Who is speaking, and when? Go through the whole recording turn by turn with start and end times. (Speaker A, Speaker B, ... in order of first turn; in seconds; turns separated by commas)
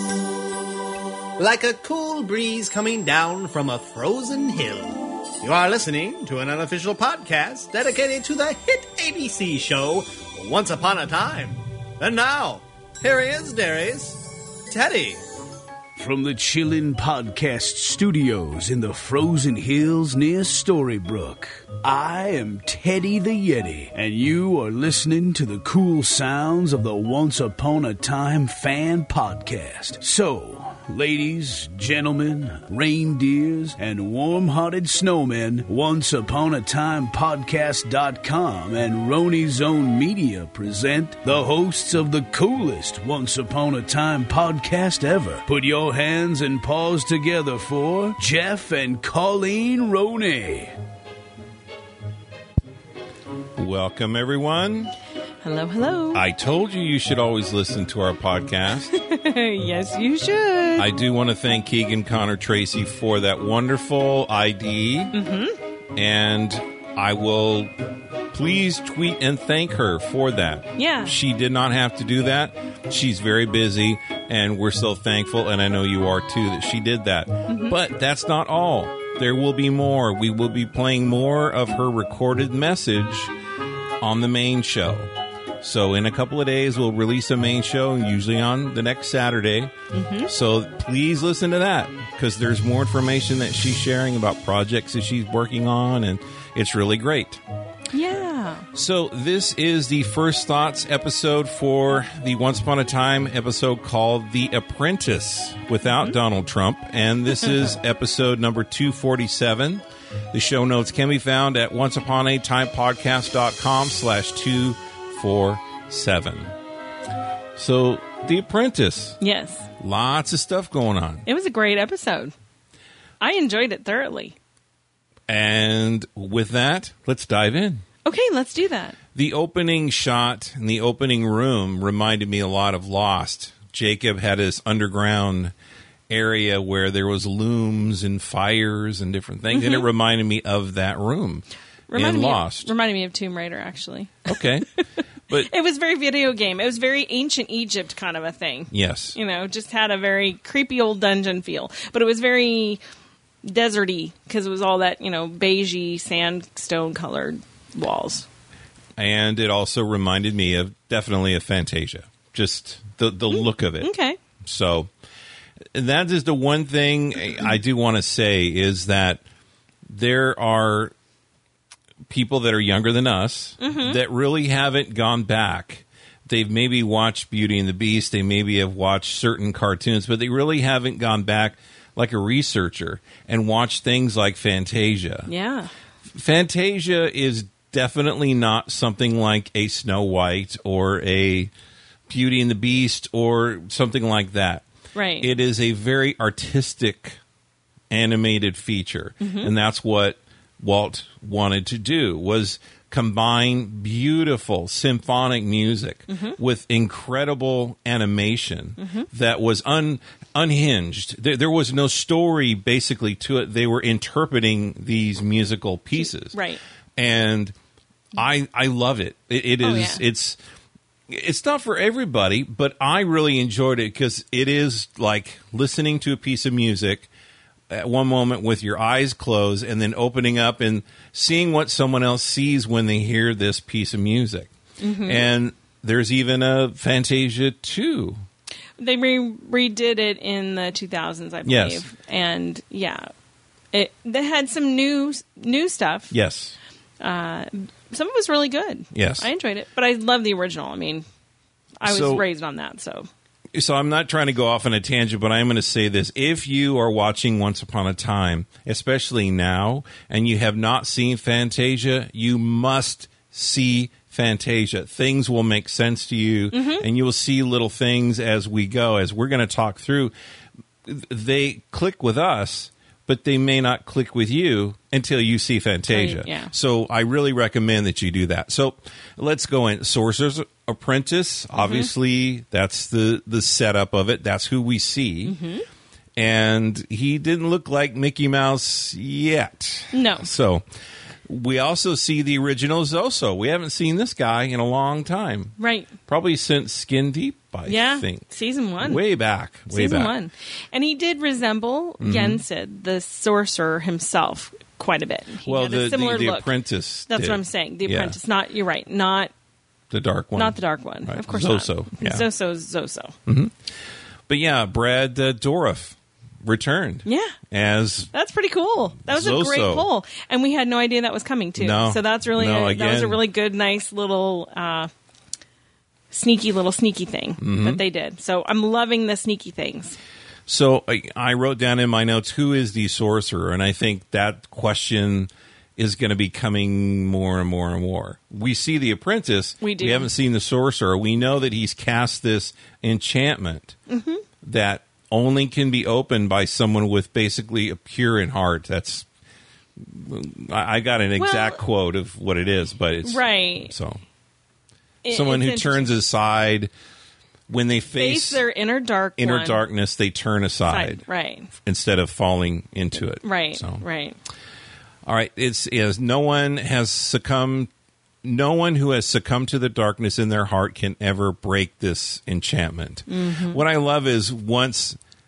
Speaker A: 1.4-15.2, Speaker B: 16.0-50.7, Speaker C: 53.6-54.9, Speaker D: 55.4-56.2, Speaker C: 56.1-59.0, Speaker D: 58.9-60.9, Speaker C: 60.8-65.1, Speaker D: 65.1-65.6, Speaker C: 65.9-67.7, Speaker C: 68.3-83.3, Speaker D: 70.8-71.1, Speaker D: 77.5-77.8, Speaker C: 84.0-89.7, Speaker D: 89.9-90.3, Speaker C: 90.3-97.4, Speaker D: 97.9-98.7, Speaker C: 98.7-116.5, Speaker C: 117.5-119.2, Speaker D: 119.2-119.7, Speaker C: 119.8-121.2, Speaker D: 121.2-122.3, Speaker D: 123.2-124.3, Speaker C: 125.3-127.8, Speaker D: 128.0-128.9, Speaker C: 129.1-135.5, Speaker C: 136.1-142.7, Speaker D: 139.5-139.8, Speaker D: 141.9-144.3, Speaker C: 144.2-144.7, Speaker D: 145.3-152.8, Speaker C: 148.7-149.2, Speaker D: 153.4-158.2, Speaker C: 159.0-163.9, Speaker D: 163.3-164.2, Speaker C: 164.4-164.9, Speaker C: 165.7-169.2, Speaker C: 169.9-170.9, Speaker C: 172.1-185.3, Speaker D: 173.6-174.0, Speaker D: 185.3-185.7, Speaker C: 186.1-191.5, Speaker C: 192.1-194.6, Speaker D: 194.9-195.3, Speaker C: 195.2-197.2, Speaker C: 197.9-216.4, Speaker D: 199.2-199.5, Speaker D: 206.1-206.4, Speaker D: 208.8-209.1, Speaker D: 216.3-216.6, Speaker C: 216.9-217.5, Speaker C: 218.1-220.4, Speaker D: 219.6-220.0, Speaker C: 221.1-227.1, Speaker C: 227.7-234.5, Speaker D: 234.8-235.2, Speaker C: 235.0-238.2, Speaker D: 238.8-243.1, Speaker C: 241.4-241.8, Speaker D: 243.7-246.1, Speaker C: 246.1-246.6, Speaker D: 247.0-251.0, Speaker C: 248.9-249.3, Speaker D: 251.8-253.1, Speaker C: 251.8-252.2, Speaker C: 253.5-270.1, Speaker D: 266.5-266.8, Speaker C: 270.8-285.4, Speaker D: 275.9-276.5, Speaker D: 281.6-281.9, Speaker D: 285.2-285.6, Speaker C: 286.1-290.6, Speaker D: 289.9-290.3, Speaker C: 291.2-295.6, Speaker D: 295.6-295.9, Speaker C: 296.1-298.2, Speaker D: 297.7-299.0, Speaker C: 298.8-300.1, Speaker D: 299.7-306.5, Speaker C: 302.0-302.4, Speaker C: 305.4-308.1, Speaker D: 307.1-309.3, Speaker C: 309.9-312.3, Speaker D: 310.3-313.1, Speaker C: 313.3-313.5, Speaker C: 314.3-318.1, Speaker D: 317.1-317.4, Speaker D: 318.1-324.9, Speaker C: 319.0-319.9, Speaker C: 321.6-323.2, Speaker D: 326.1-330.0, Speaker C: 327.4-327.8, Speaker C: 330.5-343.8, Speaker D: 339.6-340.1, Speaker D: 343.9-344.2, Speaker C: 344.4-349.1, Speaker C: 349.8-354.0, Speaker D: 351.2-351.6, Speaker D: 353.0-353.7, Speaker D: 355.0-356.0, Speaker C: 355.1-356.7, Speaker C: 357.5-358.4, Speaker D: 357.9-359.6, Speaker C: 359.2-363.8, Speaker D: 360.7-361.5, Speaker D: 363.2-364.2, Speaker C: 365.1-367.7, Speaker C: 368.2-375.0, Speaker D: 373.1-373.6